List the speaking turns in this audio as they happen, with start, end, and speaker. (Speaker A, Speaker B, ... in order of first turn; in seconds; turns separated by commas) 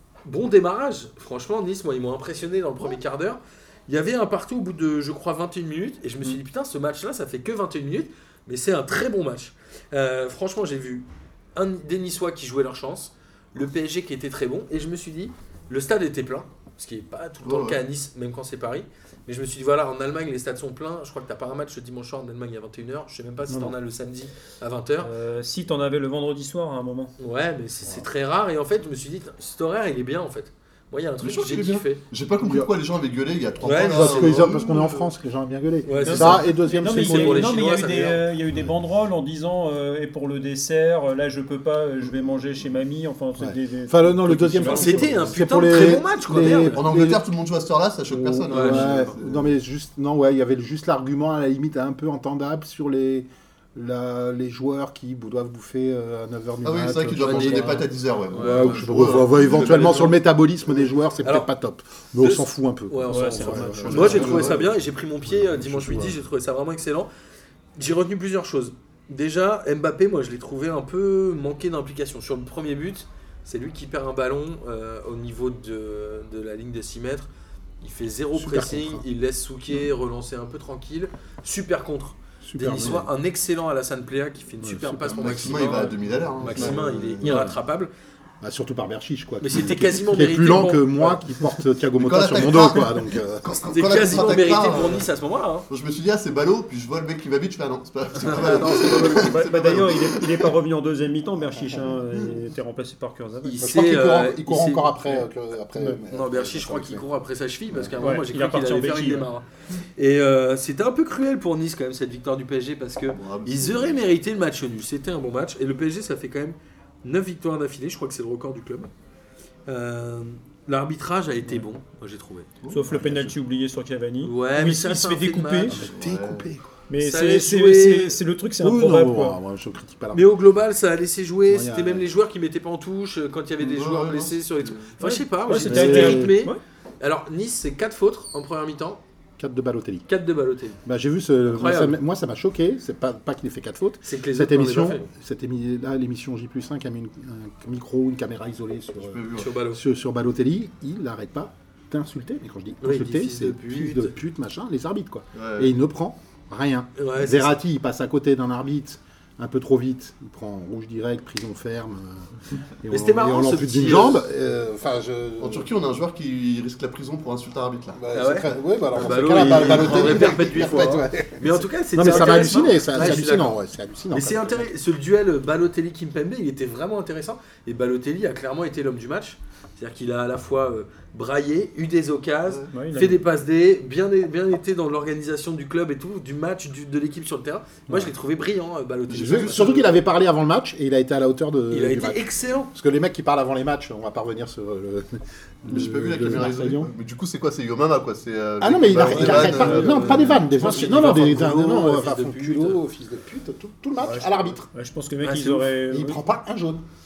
Speaker A: 0.2-25.1, Speaker B: 17.4-17.8, Speaker C: 25.0-27.1, Speaker A: 27.2-32.0, Speaker B: 31.2-35.1, Speaker D: 32.4-32.7, Speaker A: 33.6-34.5, Speaker D: 33.7-37.6, Speaker A: 35.8-38.2, Speaker C: 36.0-45.3, Speaker D: 43.4-47.2, Speaker A: 44.6-46.8, Speaker B: 46.6-49.5, Speaker D: 48.1-64.6, Speaker A: 48.5-49.1, Speaker B: 56.6-60.1, Speaker A: 57.1-60.2, Speaker A: 61.2-61.5, Speaker A: 62.2-67.1, Speaker C: 63.1-64.4, Speaker B: 63.8-64.7, Speaker B: 65.3-66.2, Speaker A: 67.8-77.3, Speaker A: 77.8-87.9, Speaker D: 78.3-79.0, Speaker D: 82.4-83.1, Speaker D: 84.6-85.7, Speaker B: 85.1-87.5, Speaker D: 86.4-87.5, Speaker D: 88.4-93.6, Speaker A: 89.4-91.2, Speaker B: 91.9-95.1, Speaker A: 93.7-95.7, Speaker B: 95.7-100.5, Speaker A: 98.2-99.4, Speaker C: 99.1-103.6, Speaker A: 103.4-104.9, Speaker D: 103.6-107.0, Speaker A: 106.1-109.4, Speaker D: 107.7-108.0, Speaker C: 108.0-109.3, Speaker A: 110.0-118.9, Speaker B: 113.1-114.0, Speaker A: 119.7-122.5, Speaker B: 122.6-123.2, Speaker C: 122.7-125.8, Speaker D: 122.9-123.3, Speaker A: 124.2-125.8, Speaker D: 125.7-126.7, Speaker B: 125.8-126.5, Speaker C: 126.9-129.4, Speaker A: 127.0-128.2, Speaker D: 128.6-130.3, Speaker A: 130.1-139.0, Speaker D: 131.5-132.1, Speaker B: 133.6-134.9, Speaker C: 135.0-136.6, Speaker D: 135.6-136.4, Speaker D: 139.4-140.1, Speaker A: 140.1-140.8, Speaker D: 140.8-162.3, Speaker A: 141.5-142.0, Speaker A: 144.0-145.1, Speaker B: 149.0-149.5, Speaker A: 149.3-149.8, Speaker A: 152.8-154.2, Speaker B: 155.3-155.7, Speaker A: 157.0-157.5, Speaker D: 162.8-165.7, Speaker A: 162.9-164.2, Speaker B: 165.4-168.0, Speaker D: 167.9-174.7, Speaker A: 168.1-173.6, Speaker B: 169.0-170.7, Speaker C: 172.1-172.6, Speaker A: 174.1-189.9, Speaker B: 182.5-182.7, Speaker C: 182.7-183.2, Speaker D: 187.9-188.1, Speaker B: 189.1-190.0, Speaker D: 189.1-196.9, Speaker A: 191.7-192.7, Speaker B: 195.7-200.9, Speaker D: 198.6-204.7, Speaker A: 198.9-202.8, Speaker C: 199.0-199.7, Speaker B: 204.0-204.5, Speaker C: 204.7-206.2, Speaker A: 205.2-205.7, Speaker D: 205.9-206.8